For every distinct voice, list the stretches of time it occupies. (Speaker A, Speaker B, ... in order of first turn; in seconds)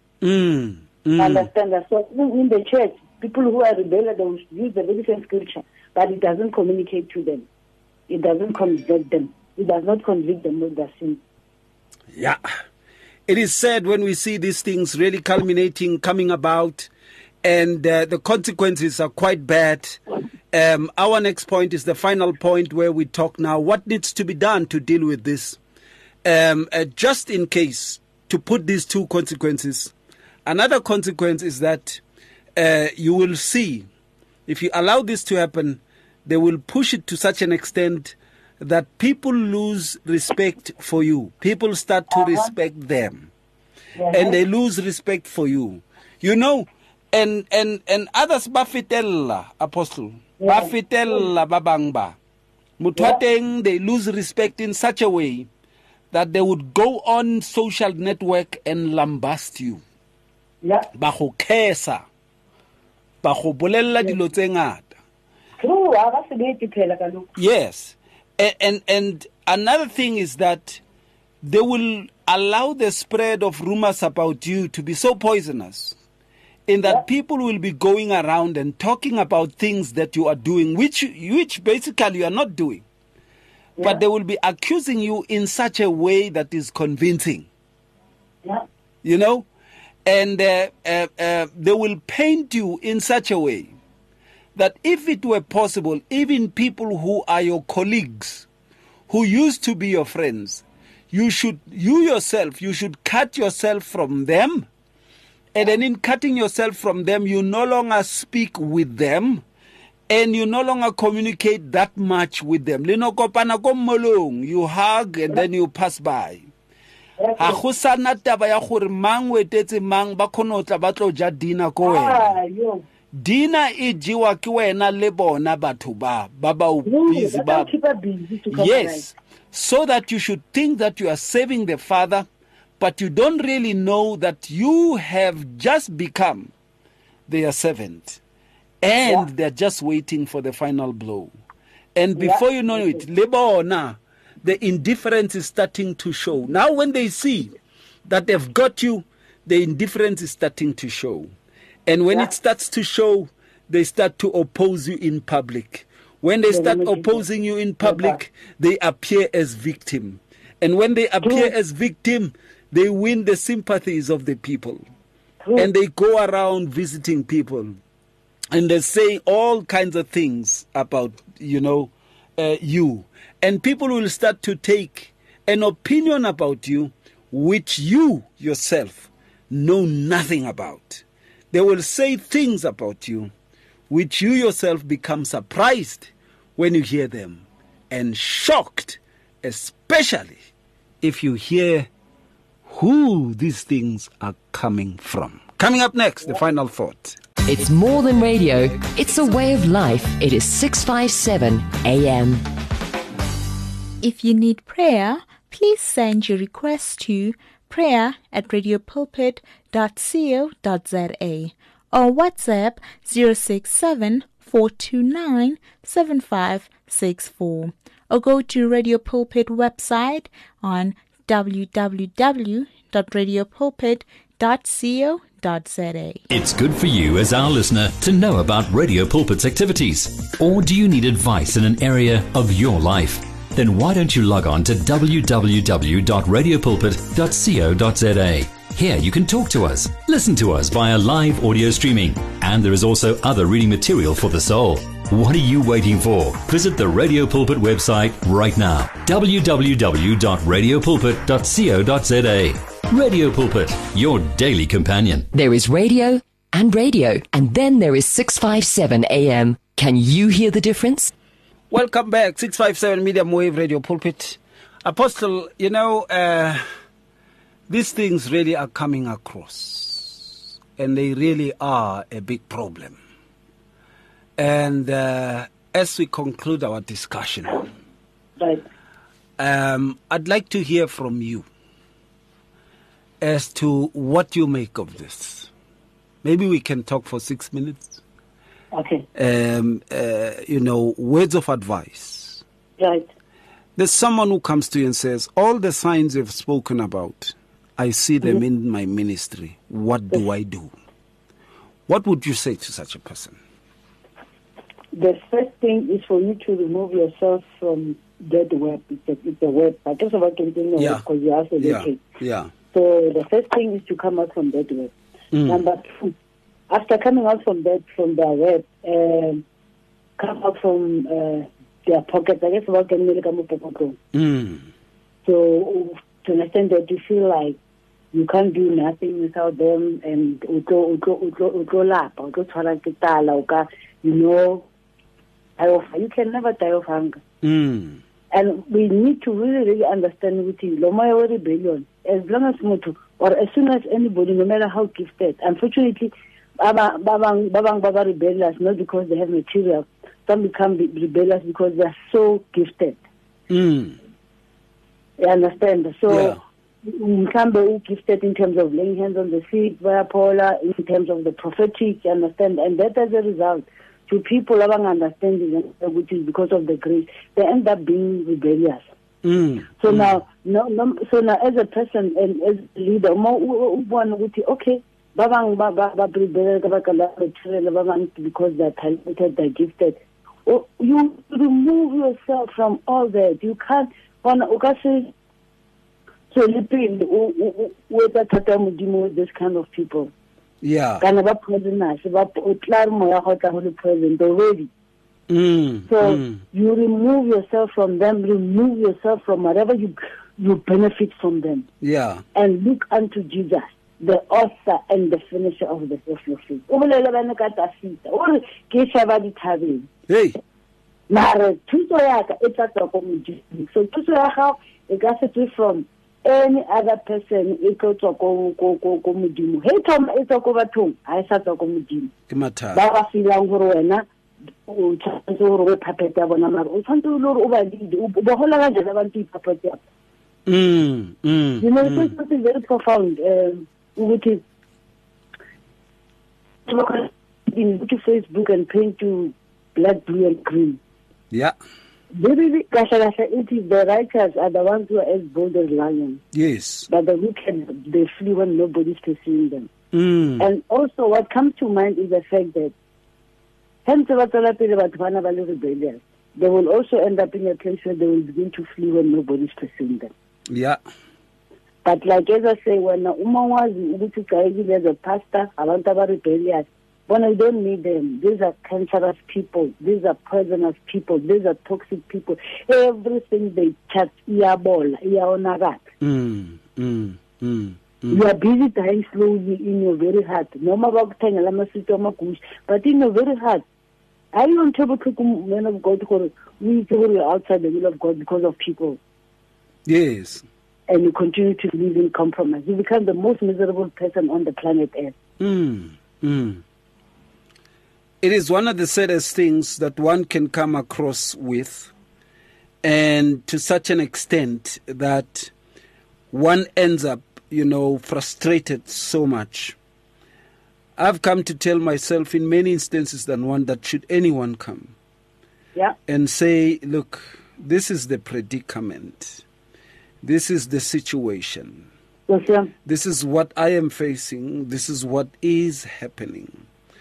Speaker A: 0.2-1.5, 12.1-12.4, 13.3-16.9, 17.4-20.0, 20.5-25.6, 26.2-29.9, 30.4-32.0, 32.5-33.9, 34.5-43.3, 44.1-52.2, 52.8-55.5, 56.1-59.8, 60.9-62.0, 63.2-64.9, 67.3-70.8, 71.4-76.0, 76.7-82.8, 83.8-87.5, 89.0-89.5, 90.0-93.7, 94.5-98.5, 99.1-104.7, 105.5-109.4, 110.1-116.5, 117.4-122.3, 123.1-127.7, 128.5-132.2, 132.8-136.5, 137.3-138.2, 138.8-141.3, 141.9-151.3, 151.8-164.8, 165.6-167.7, 168.5-183.3, 183.9-190.4, 191.0-191.9, 192.7-197.2, 261.7-266.6, 267.7-273.0, 274.4-277.7, 279.4-281.4, 283.2-285.5, 286.2-288.0, 289.1-292.4, 293.8-300.7, 301.9-303.4, 310.8-311.0, 311.6-312.5, 315.3-315.6, 324.1-324.7, 337.4-338.0, 353.5-354.0, 356.1-356.4, 369.2-370.1, 390.6-391.1, 395.3-396.4, 401.8-402.2, 410.1-410.4, 422.3-422.8, 430.4-432.1, 446.3-446.9, 449.9-450.5, 460.5-460.8, 476.0-478.2, 489.9-490.4, 495.4-496.6, 498.2-501.9, 502.8-505.5, 506.3-509.8, 511.0-514.9, 516.1-519.4, 520.2-521.9, 522.8-526.6
Speaker B: 1.2-7.5, 8.1-11.2, 42.1-42.5, 44.0-44.4, 50.4-50.7, 65.6-67.3, 117.2-117.6, 121.8-122.8, 126.8-129.1, 142.2-143.0, 156.5-157.2, 157.8-158.2, 161.2-161.5, 165.4-165.7, 278.4-278.6, 288.7-289.1, 292.8-293.1, 304.9-312.0, 312.7-314.9, 315.5-316.1, 316.7-319.4, 320.2-324.0, 325.2-327.6, 328.1-334.6, 335.6-337.2, 338.3-353.0, 355.2-368.9, 369.8-385.1, 386.3-390.1, 391.0-394.7, 395.9-401.7, 402.3-409.9, 411.1-422.1, 422.7-424.0, 424.6-429.8, 431.6-434.4, 436.6-440.8, 442.1-446.2, 446.9-449.7, 450.4-452.7, 453.8-460.1, 461.8-475.8, 478.1-483.6, 484.3-489.0, 490.9-495.1, 522.3-522.7
Speaker C: 197.4-202.4, 255.3-261.1
Speaker D: 204.0-226.2
Speaker E: 226.3-255.3